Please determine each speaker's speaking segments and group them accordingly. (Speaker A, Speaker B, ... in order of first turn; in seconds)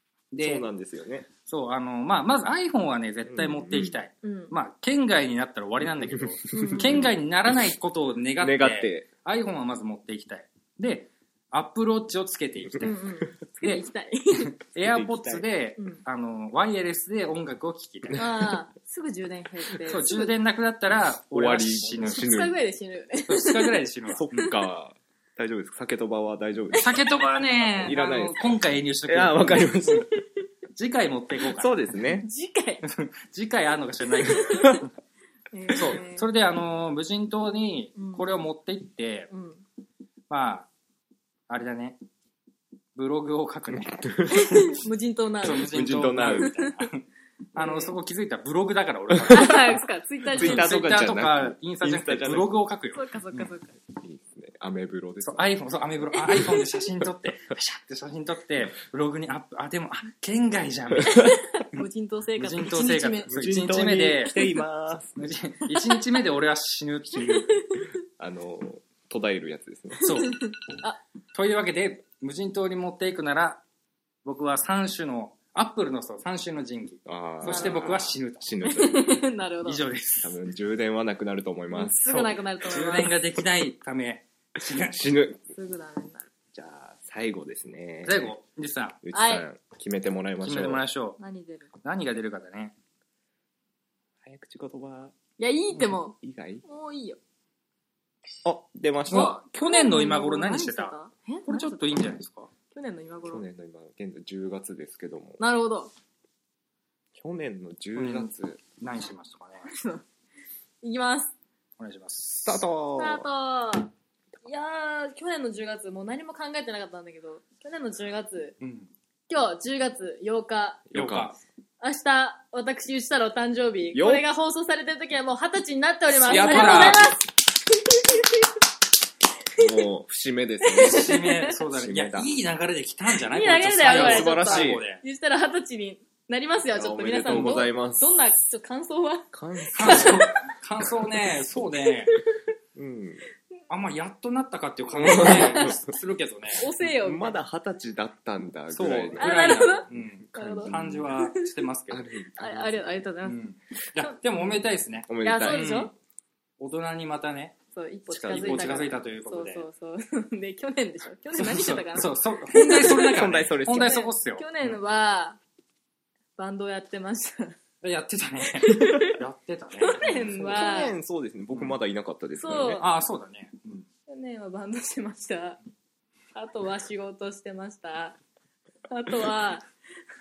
Speaker A: 0.3-0.6, 1.5-13.0, 14.5-18.2, 19.9-22.2, 23.3-24.3, 26.8-30.1, 30.7-31.8, 32.8-34.9, 35.7-39.3, 40.3-40.7, 41.5-42.0, 42.9-44.4, 45.4-49.8, 50.4-53.5, 55.2-61.3, 62.4-64.4, 65.2-67.5, 70.0-70.4, 71.3-73.6, 74.2-78.5, 79.6-80.3, 82.0-85.1, 88.0-89.0, 90.4-91.2, 91.8-92.7, 99.1-100.9, 101.5-102.5, 108.0-109.7, 111.8-112.6, 118.6-118.9, 120.9-121.4, 126.2-127.1, 130.8-135.0, 139.7-142.2, 143.7-146.7, 148.7-152.1, 153.2-155.9, 156.6-157.6, 158.1-159.6, 161.3-164.8, 167.8-170.7, 171.5-171.8, 172.8-173.8
Speaker B: 0.4-1.3, 3.2-4.0, 6.0-7.1, 8.4-9.1, 14.8-15.5, 21.3-22.6, 24.2-26.9, 27.8-30.1, 31.5-32.3, 34.4-34.8, 43.7-44.6, 45.6-46.5, 49.1-49.5, 50.3-52.5, 54.0-55.5, 63.3-65.2, 68.2-70.2, 77.0-79.3, 80.2-82.0, 84.8-85.5, 86.5-88.3, 89.0-90.8, 94.2-95.1, 95.7-96.6, 98.4-99.4, 103.2-105.4, 107.1-108.6, 112.4-113.3, 120.9-121.3, 123.9-124.2, 126.2-127.1, 129.6-132.3, 133.8-134.8, 136.7-138.1, 139.3-140.3, 142.7-143.2, 144.9-145.9, 147.0-151.2, 151.9-153.0, 155.1-155.9, 158.2-158.9, 162.9-164.0, 170.5-172.8
Speaker C: 4.2-4.5, 6.5-7.1, 12.8-14.5, 18.1-20.4, 22.0-24.5, 32.2-32.8, 34.2-34.8, 35.5-36.2, 38.0-38.3, 39.3-39.6, 44.3-46.8, 47.6-47.9, 49.3-50.8, 52.9-53.8, 56.1-56.8, 61.1-63.4, 65.7-66.0, 67.3-67.9, 70.1-71.0, 77.4-77.8, 78.6-79.8, 81.7-83.2, 85.5-86.3, 89.1-89.5, 91.2-91.7, 95.4-97.2, 99.1-102.2, 102.7-103.4, 105.4-105.9, 109.7-110.0, 110.8-111.3, 113.0-113.9, 114.4-118.5, 119.3-120.8, 121.8-128.4, 129.6-129.8, 130.6-131.5, 133.2-140.4, 145.0-145.8, 146.6-147.4, 149.2-151.5, 152.4-153.4, 155.2-155.9, 157.7-165.4, 166.4-167.6, 168.6-169.2, 169.8-170.9, 172.4-172.8, 174.1-175.6, 176.3-178.2, 178.9-179.7